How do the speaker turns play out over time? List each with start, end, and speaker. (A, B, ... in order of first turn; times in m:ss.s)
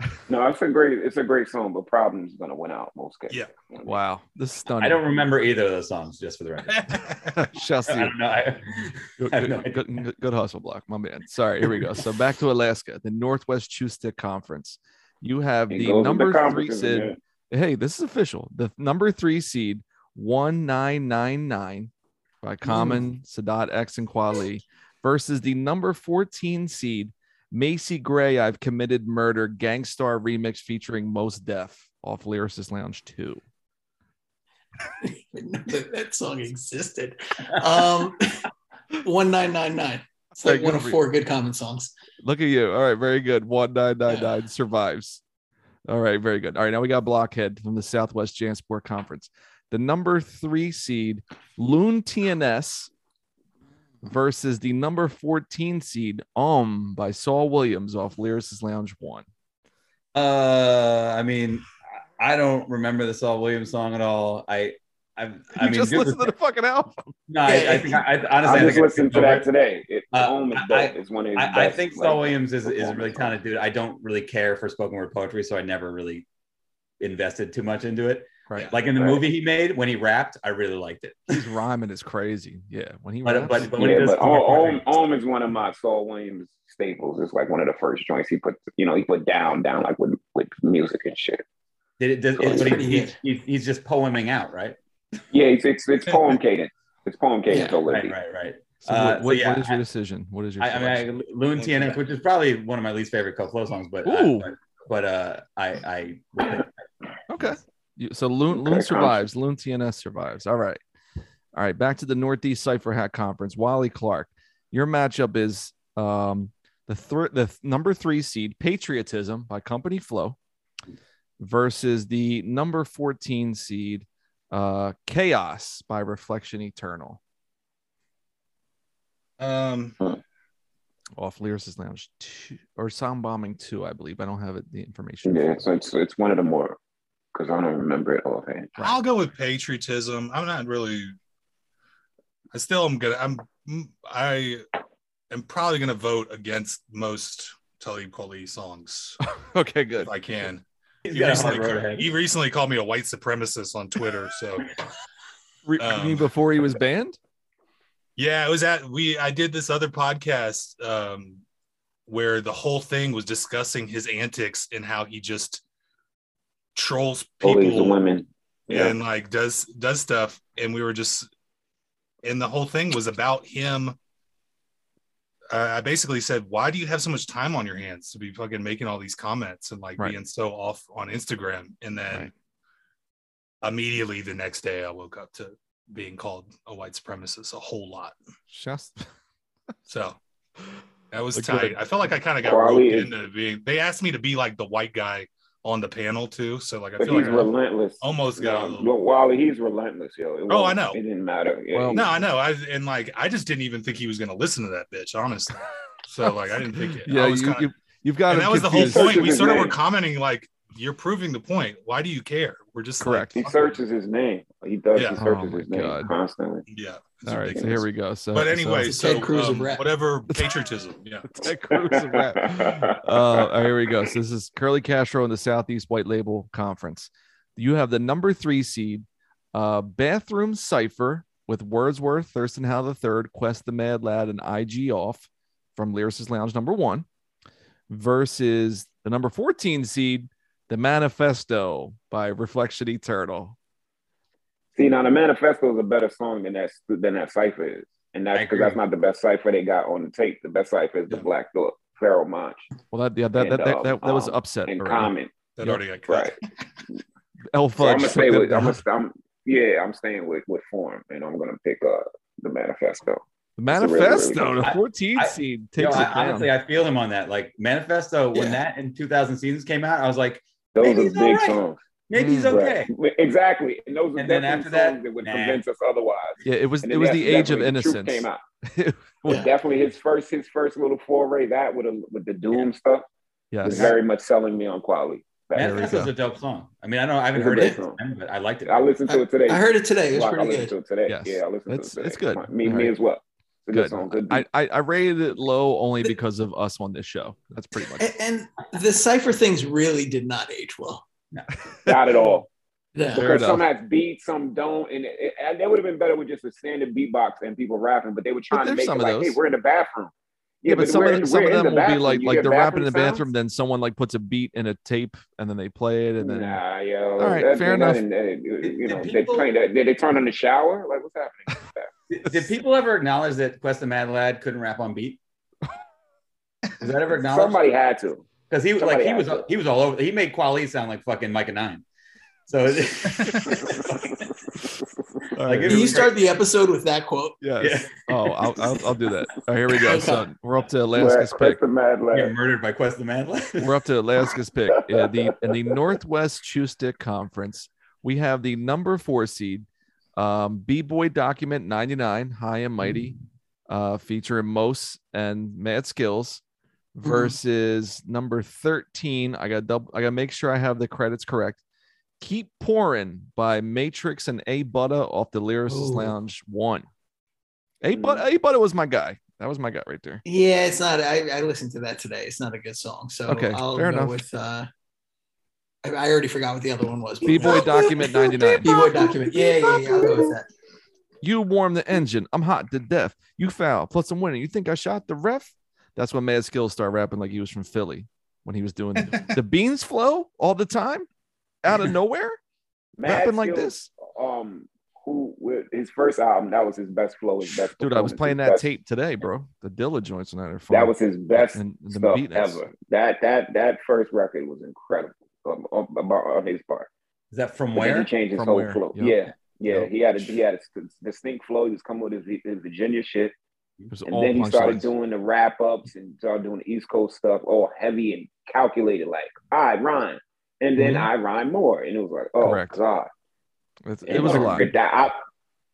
0:00.3-0:04.0 A
0:03.8-0:05.1 B
0:04.8-0:07.0 C
0:06.7-0:07.4 D
0:07.3-0:08.2 B
0:07.9-0:09.9 C
0:09.2-0:21.9 B
0:15.7-0:17.2 A
0:22.4-0:33.4 B
0:22.7-0:23.0 E
0:35.0-0:38.5 E
0:39.0-0:41.9 E
0:40.4-0:41.0 B
0:42.2-0:45.2 B
0:44.1-0:44.3 E
0:45.9-0:52.9 B
0:54.0-0:59.3 B
1:00.1-1:01.7 C
1:02.2-1:06.3 C
1:05.6-1:07.1 B
1:07.3-1:09.5 C
1:07.4-1:08.1 E
1:08.4-1:13.3 A
1:10.1-1:16.3 C
1:17.0-1:21.4 C
1:21.3-1:23.8 B
1:23.2-1:24.8 C
1:23.8-1:31.4 A
1:32.0-1:34.8 C
1:32.4-1:33.2 E
1:35.3-1:38.1 A
1:37.5-1:37.8 E
1:37.9-1:39.8 C
1:38.8-1:41.1 B
1:40.6-1:46.7 C
1:41.6-1:42.0 D
1:44.0-1:44.5 B
1:47.3-1:50.8 B
1:48.5-1:49.2 A
1:51.6-2:00.4 B
2:01.4-2:07.2 B
2:09.4-2:10.0 D
2:11.2-2:15.6 B
2:15.2-2:16.8 A
2:17.4-2:18.7 A
2:18.8-2:21.2 D
2:22.5-2:24.6 D
2:25.3-2:29.2 D
2:29.4-2:30.1 B
2:30.1-2:34.7 D
2:31.0-2:32.1 C
2:35.6-2:37.2 B
2:35.8-2:36.3 D
2:38.2-2:41.4 D
2:42.1-2:45.6 D
2:46.8-2:48.0 D
2:47.4-2:48.9 A
2:48.7-2:51.3 D
2:52.2-2:54.0 D
2:55.5-3:02.3 D
3:03.6-3:08.2 D
3:08.5-3:09.1 B
3:09.9-3:10.2 D
3:11.1-3:17.5 D
3:11.4-3:11.8 B
3:12.4-3:13.1 A
3:17.0-3:22.1 A
3:17.1-3:17.5 B
3:18.0-3:18.9 D
3:20.5-3:21.0 D
3:21.7-3:22.0 B
3:21.9-3:27.7 D
3:27.0-3:29.5 B
3:28.3-3:33.7 D
3:28.7-3:29.7 A
3:33.0-3:33.5 B
3:33.4-3:36.6 A
3:34.9-3:35.2 D
3:35.2-3:36.1 B
3:36.7-3:41.3 D
3:37.3-3:38.9 B
3:38.8-3:39.8 E
3:41.2-3:57.1 B
3:41.7-3:43.5 A
3:57.9-4:03.6 B
4:04.8-4:12.7 A
4:08.3-4:08.8 C
4:12.9-4:15.1 B
4:13.4-4:15.3 A
4:15.6-4:16.4 D
4:16.1-4:16.4 A
4:17.5-4:18.8 B
4:17.8-4:24.7 A
4:23.6-4:26.5 B
4:24.6-4:32.9 C
4:30.8-4:31.8 A
4:32.2-4:32.6 B
4:32.5-4:38.4 A
4:34.2-4:35.6 C
4:36.4-4:39.4 B
4:39.3-4:43.0 A
4:43.5-4:43.9 B
4:43.6-4:45.8 A
4:45.6-4:48.8 C
4:45.6-4:46.1 B
4:47.3-4:48.0 A
4:48.6-4:54.4 A
4:49.1-4:50.7 E
4:51.1-4:52.9 B
4:53.7-4:58.1 B
4:57.9-5:01.0 E
5:01.7-5:01.9 B
5:01.9-5:02.5 A
5:03.0-5:03.3 E
5:03.1-5:03.6 B
5:03.2-5:10.1 A
5:08.5-5:09.4 B
5:10.6-5:13.3 A
5:10.7-5:16.6 B
5:16.2-5:21.9 A
5:17.2-5:18.0 B
5:18.6-5:19.5 C
5:22.1-5:25.2 C
5:26.8-5:27.6 C
5:27.2-5:29.5 A
5:28.5-5:31.8 C
5:32.5-5:34.2 C
5:33.4-5:35.2 A
5:35.4-5:36.0 B
5:35.4-5:36.2 C
5:35.7-5:37.4 E
5:37.4-5:41.6 B
5:37.6-5:37.9 C
5:39.8-5:40.3 E
5:40.9-5:42.3 A
5:42.1-5:43.7 C
5:43.6-5:53.2 B
5:53.7-5:56.4 B
5:57.0-6:01.6 B
5:57.0-5:57.4 E
6:02.2-6:06.9 B
6:05.7-6:06.1 E
6:07.8-6:10.2 B
6:07.9-6:08.2 A
6:10.2-6:14.7 E
6:13.3-6:14.2 B
6:15.8-6:20.5 E
6:17.2-6:19.0 B
6:21.2-6:31.1 B
6:31.6-6:32.4 B
6:33.0-6:38.7 A
6:33.1-6:33.9 B
6:37.4-6:42.6 B
6:40.7-6:46.9 A
6:47.3-6:48.1 C
6:47.8-6:53.3 A
6:48.4-6:49.2 B
6:49.7-6:50.3 B
6:53.9-6:54.9 B
6:54.1-7:03.1 A
7:00.8-7:01.1 B
7:02.4-7:02.8 B
7:03.9-7:04.7 B
7:04.0-7:05.2 A